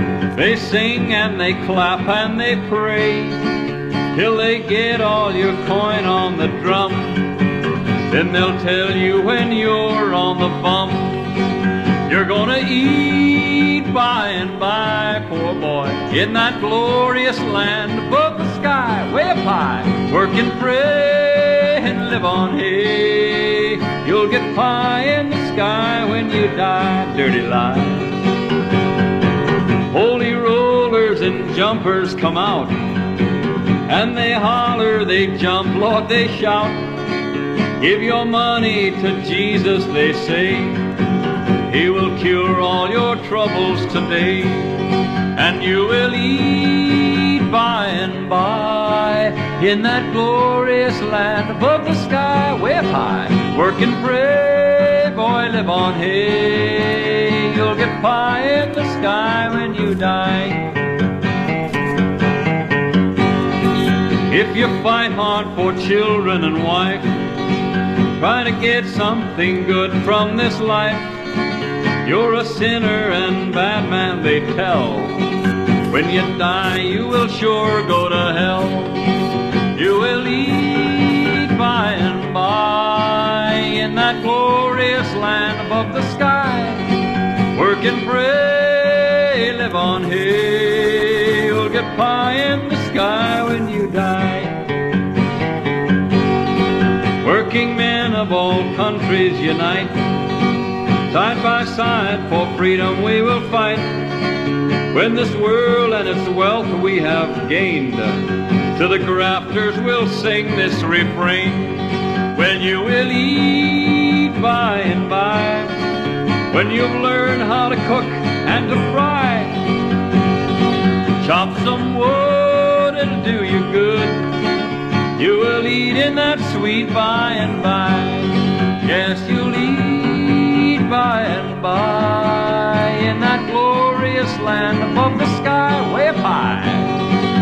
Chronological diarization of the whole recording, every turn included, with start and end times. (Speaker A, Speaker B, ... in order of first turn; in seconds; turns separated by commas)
Speaker A: 0.3-3.4, Speaker A: 4.1-7.3, Speaker A: 8.1-11.2, Speaker A: 12.1-28.1, Speaker A: 29.9-32.8, Speaker A: 33.9-36.8, Speaker A: 37.8-40.8, Speaker A: 41.7-60.7, Speaker A: 64.3-67.1, Speaker A: 68.2-71.1, Speaker A: 72.0-75.2, Speaker A: 75.9-79.0, Speaker A: 79.7-86.9, Speaker A: 87.5-94.6, Speaker A: 97.2-100.0, Speaker A: 101.1-104.0, Speaker A: 104.9-115.7, Speaker A: 116.5-119.6, Speaker A: 121.2-124.2, Speaker A: 125.2-136.9